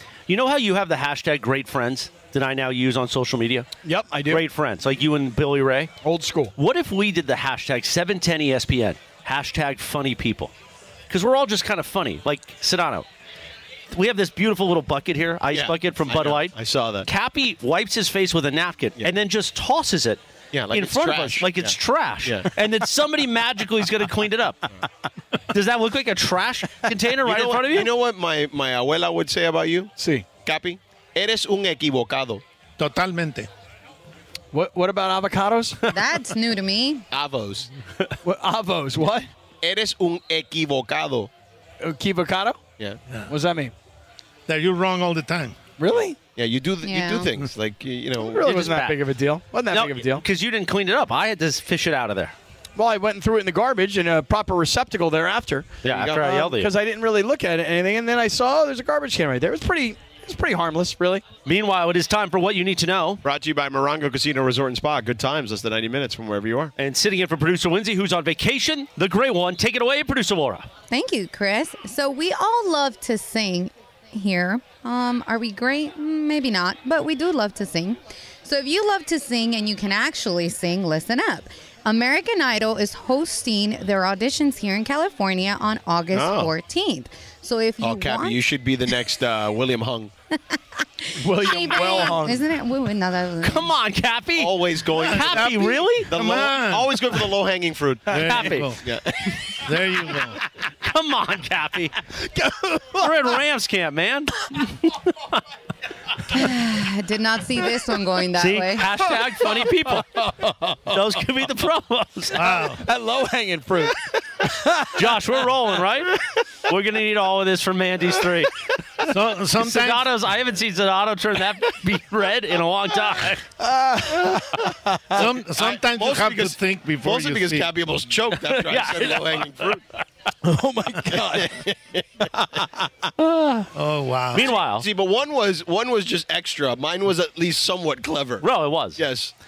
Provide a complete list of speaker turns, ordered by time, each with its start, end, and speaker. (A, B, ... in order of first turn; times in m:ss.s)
0:00.3-0:03.7 A
0:03.8-0:04.5 B
0:04.3-0:05.9 A
0:06.0-0:06.5 B
0:06.6-0:10.5 A
0:11.1-0:13.1 A
0:13.9-0:24.6 A
0:15.5-0:17.0 C
0:20.5-0:22.5 C
0:25.5-0:27.9 A
0:27.2-0:29.9 C
0:30.0-0:30.2 B
0:30.4-0:32.4 C
0:32.8-0:33.5 D
0:34.5-0:35.8 B
0:35.9-0:37.0 E
0:37.1-0:37.7 C
0:38.2-0:39.3 B
0:39.6-0:41.3 C
0:41.8-0:42.6 B
0:43.3-0:43.7 B
0:44.5-0:45.6 D
0:45.8-0:46.2 B
0:46.4-0:48.7 C
0:46.8-0:47.3 E
0:48.2-0:50.2 B
0:48.6-0:48.9 A
0:49.7-0:52.3 A
0:52.8-1:01.2 B
0:55.8-0:56.7 A
0:55.9-0:56.2 C
1:01.4-1:03.2 A
1:03.2-1:06.7 C
1:06.8-1:10.7 A
1:10.9-1:28.4 E
1:26.1-1:26.5 C
1:27.8-1:30.1 C
1:30.5-1:33.8 E
1:31.2-1:32.4 B
1:33.4-1:36.1 A
1:34.4-1:39.3 C
1:35.0-1:37.2 D
1:38.1-1:38.8 D
1:38.1-1:38.6 B
1:38.3-1:38.7 A
1:39.6-1:40.4 D
1:40.8-1:41.9 A
1:42.9-1:45.4 A
1:46.3-1:49.0 E
1:48.4-1:50.0 A
1:50.2-1:51.0 B
1:50.9-1:52.4 A
1:52.3-1:52.8 D
1:52.4-1:55.4 B
1:55.0-1:58.5 A
1:59.0-2:00.3 D
1:59.6-2:03.4 A
2:03.6-2:05.2 B
2:05.1-2:07.7 D
2:05.6-2:09.8 C
2:08.5-2:09.8 A
2:10.4-2:11.5 B
2:11.1-2:12.9 C
2:13.2-2:13.7 A
2:13.7-2:14.5 D
2:14.3-2:14.8 A
2:14.4-2:19.3 C
2:18.4-2:19.0 A